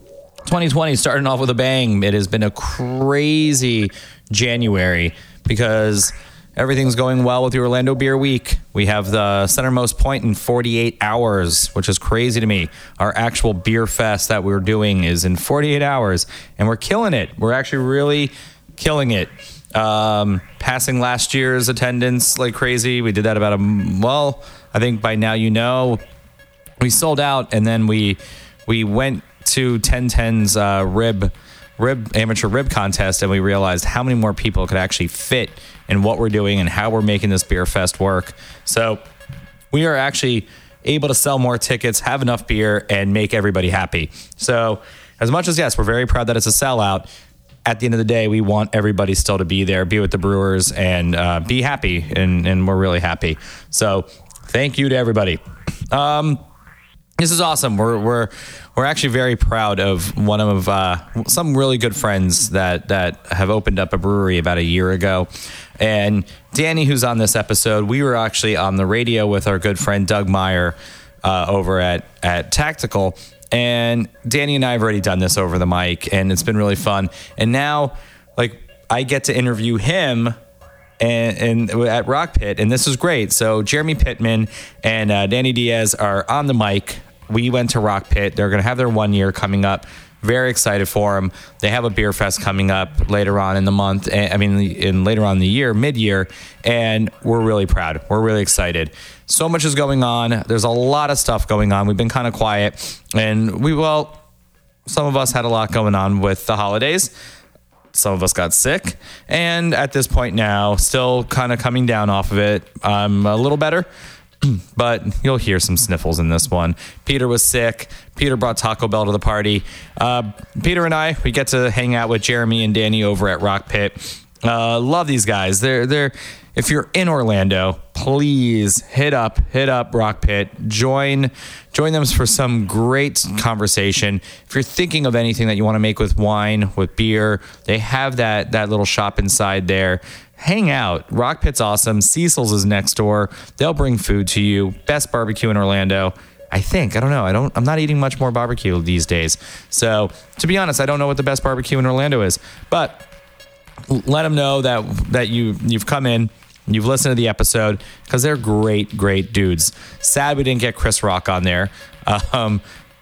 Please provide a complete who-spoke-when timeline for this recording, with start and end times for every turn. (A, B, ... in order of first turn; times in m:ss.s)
0:00.4-0:26.0 A
0:26.8-0:39.0 A
0:39.7-0:47.1 A
0:47.6-0:55.4 A
0:55.9-0:56.4 A
0:57.2-1:20.4 A
1:21.0-1:44.2 A
1:44.8-1:47.1 A
1:47.9-1:53.9 A
1:54.4-2:33.0 A
2:33.9-2:42.6 A